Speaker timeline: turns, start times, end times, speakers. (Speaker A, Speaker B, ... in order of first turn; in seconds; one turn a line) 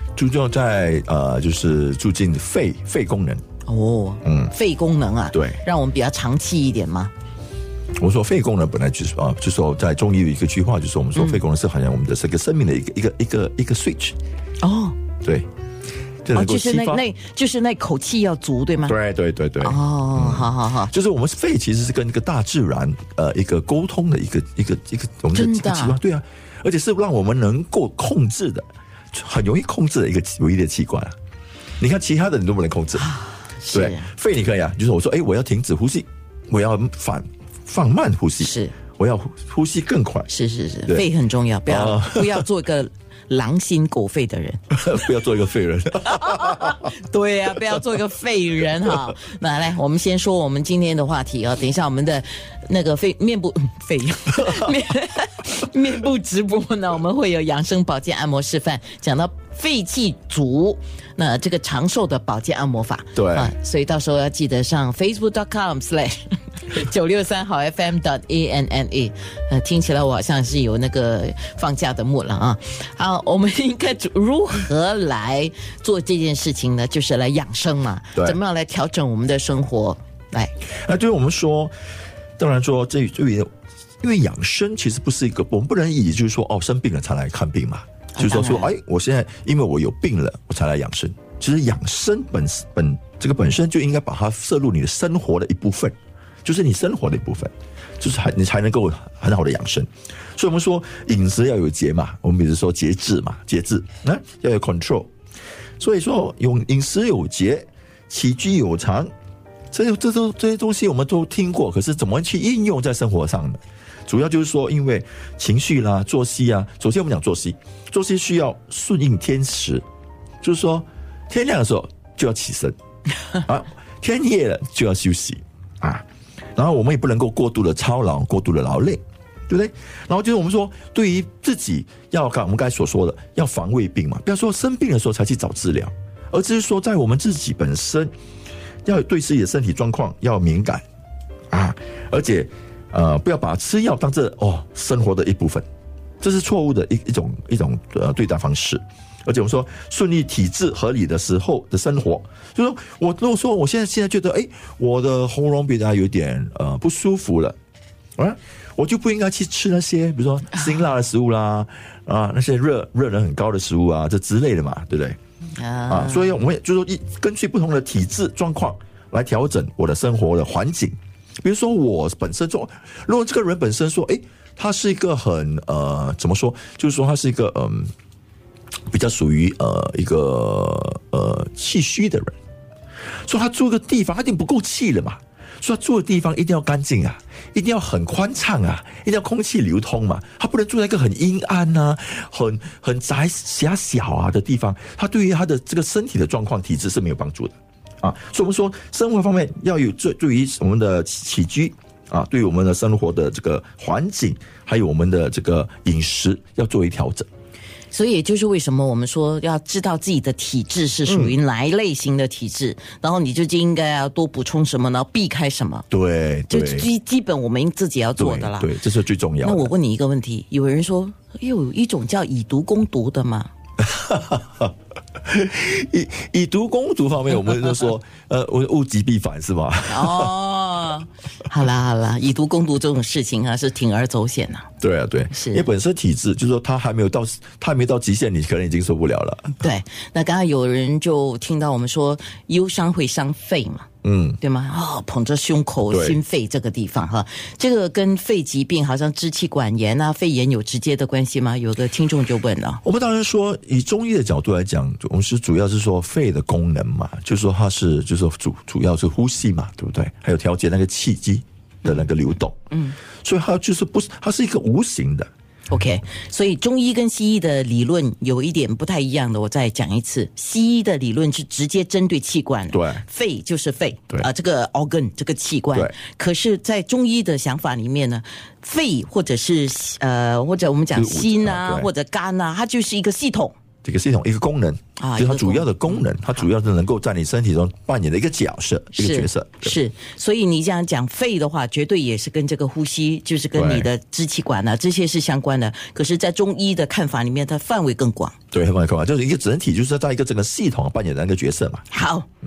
Speaker A: 0.1-3.4
Speaker B: 3.6-7.1
Speaker A: 4.2-4.5
Speaker A: 5.3-5.6
Speaker A: 8.0-14.2
Speaker B: 11.2-11.4
Speaker B: 14.6-15.0
Speaker A: 15.2-15.5
Speaker A: 16.2-17.0
Speaker B: 16.3-19.0
Speaker A: 18.9-31.1
Speaker B: 19.6-20.9
Speaker B: 25.3-26.0
Speaker A: 31.8-33.1
Speaker B: 33.0-34.1
Speaker A: 33.7-40.3
Speaker B: 38.4-38.7
Speaker B: 40.3-45.0
Speaker A: 41.7-42.5
Speaker A: 44.7-46.8
Speaker B: 46.0-80.5
Speaker A: 63.1-63.5
Speaker A: 80.7-81.7
Speaker A: 82.4-83.5
Speaker A: 84.0-105.1
Speaker B: 88.1-88.7
Speaker A: 105.8-109.1
Speaker A: 109.7-119.8
Speaker A: 120.4-122.8
Speaker A: 123.4-138.1
Speaker A: 138.8-140.8
Speaker A: 141.5-145.6
Speaker A: 146.2-157.6
Speaker A: 158.2-165.2
Speaker B: 165.6-166.4
Speaker A: 165.9-177.9
Speaker A: 178.9-182.3
Speaker A: 183.2-207.3
Speaker B: 207.9-215.8
Speaker A: 211.1-211.4
Speaker A: 215.9-216.9
Speaker B: 216.5-218.7
Speaker A: 218.2-219.7
Speaker B: 219.4-223.5
Speaker A: 223.8-230.3
Speaker B: 229.9-234.7
Speaker A: 234.8-239.6
Speaker B: 235.3-235.7
Speaker B: 239.6-243.9
Speaker A: 244.0-244.4
Speaker B: 244.4-252.8
Speaker A: 245.9-246.2
Speaker A: 252.8-262.6
Speaker B: 262.7-263.0
Speaker A: 263.2-265.3
Speaker B: 265.7-283.5
Speaker A: 272.7-273.0
Speaker A: 280.9-281.9
Speaker A: 283.8-289.8
Speaker B: 285.0-286.1
Speaker B: 288.9-298.4
Speaker A: 293.5-293.9
Speaker A: 298.5-301.8
Speaker B: 301.9-302.3